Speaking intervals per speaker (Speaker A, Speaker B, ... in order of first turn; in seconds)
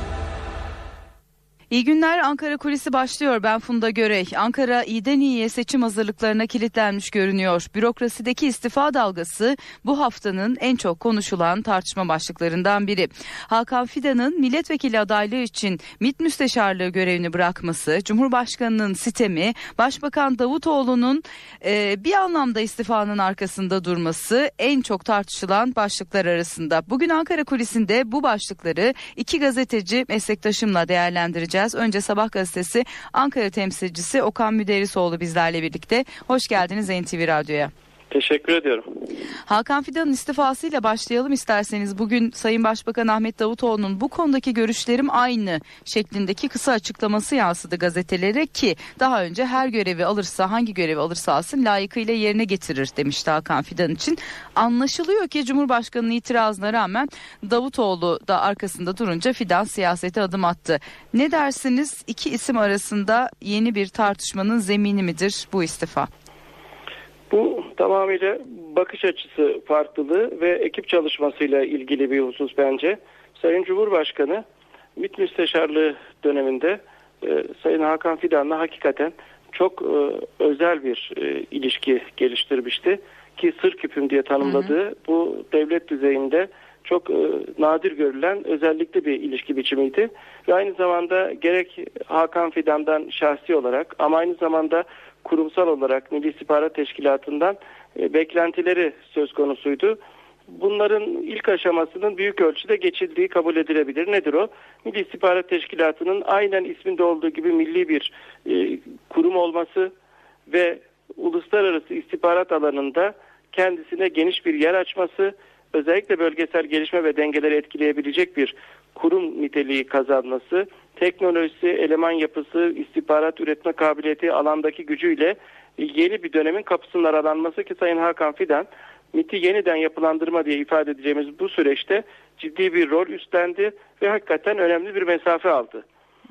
Speaker A: 1.7-37.7, 39.5-66.1, 84.5-84.7
Speaker B: 38.1-38.9, 67.3-74.4, 75.0-109.9, 110.5-135.8